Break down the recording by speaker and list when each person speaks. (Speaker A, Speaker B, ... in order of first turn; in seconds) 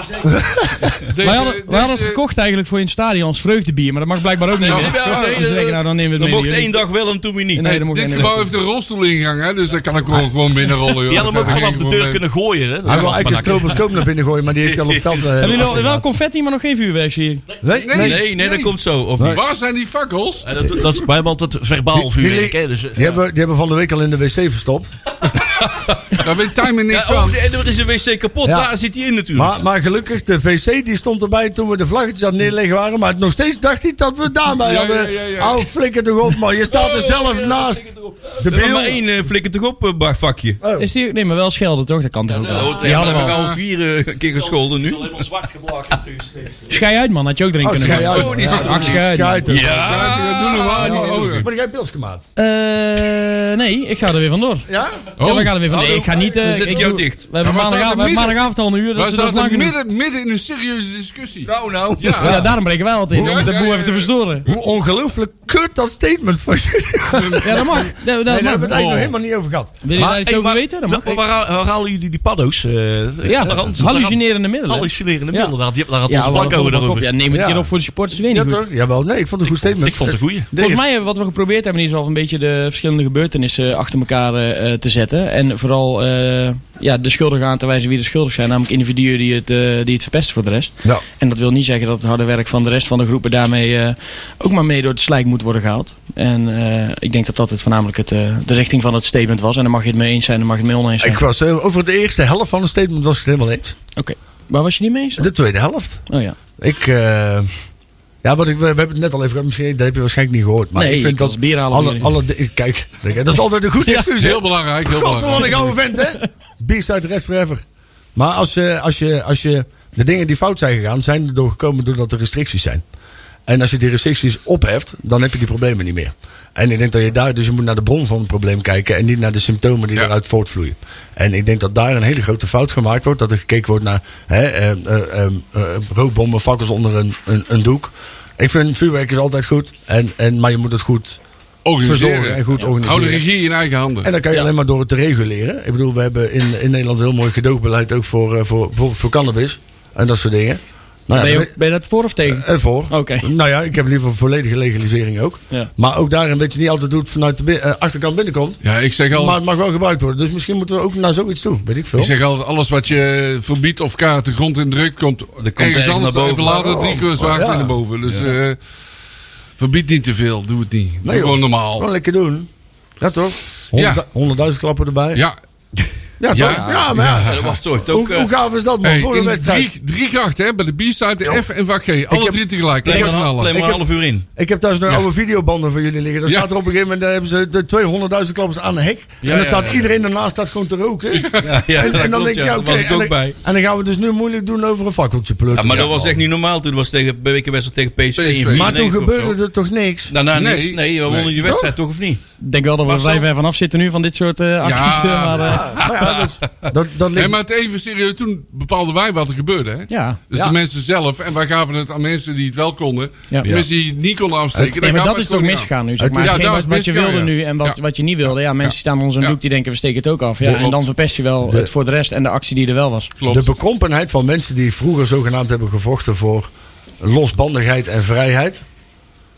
Speaker A: 0.2-1.1, 12.9-16.1, 17.6-18.2, 21.9-24.9, 28.4-28.7, 29.3-39.0, 40.6-40.9, 47.6-50.2, 50.8-52.2, 54.7-55.1, 62.2-62.5, 63.2-63.4, 64.5-69.8, 77.3-80.8, 101.0-103.8, 105.2-106.1, 106.6-107.5, 108.2-117.6, 118.2-122.8, 123.5-141.2, 141.8-143.2, 144.0-151.5, 152.2-162.1, 166.6-167.8, 171.0-175.2, 176.2-179.7, 182.1-196.2, 198.5-200.1, 201.4-201.8, 205.4-207.4, 216.0-216.5, 221.4-221.7, 223.3-226.5, 227.0-228.6
Speaker B: 1.1-2.2, 4.6-5.3, 7.6-12.2, 17.8-20.5, 26.1-27.4, 34.6-35.7, 42.9-43.6, 48.2-48.9, 49.5-51.5, 55.2-55.6, 57.4-62.5, 63.1-64.1, 67.1-67.6, 68.7-69.1, 114.2-115.8, 141.7-144.1, 158.6-159.4, 162.0-168.6, 169.6-171.9, 173.7-174.0, 176.3-177.6, 178.8-183.6, 189.3-189.7, 191.1-191.8, 198.2-198.8, 200.3-201.4, 204.6-205.6, 207.1-215.7, 216.2-217.8, 218.6-219.4, 223.2-223.5
Speaker C: 1.2-6.8, 7.5-8.5, 15.4-17.5, 40.8-43.4, 46.7-49.7, 51.0-51.4, 52.4-54.7, 55.2-59.7, 62.1-64.5, 67.4-69.1, 69.8-71.2, 73.2-75.5, 76.1-78.6, 80.5-101.2, 104.0-105.3, 106.1-106.4, 110.8-112.1, 151.1-153.3, 202.4-205.7, 209.9-210.2, 214.7-223.1
Speaker D: 4.6-8.3, 14.7-15.7, 17.9-19.4, 25.4-26.2, 26.9-29.6, 38.5-40.6, 42.5-45.2, 47.8-51.5, 55.7-57.2, 61.5-62.4, 165.4-167.3, 168.1-168.3, 176.4-178.3, 182.8-184.2, 189.2-189.8, 191.4-193.3, 195.5-199.4, 200.1-202.2, 202.9-203.1, 205.7-206.3
Speaker E: 10.9-13.8, 20.4-23.2, 36.7-38.5, 42.3-43.2, 44.3-46.8, 69.9-77.1, 79.5-80.5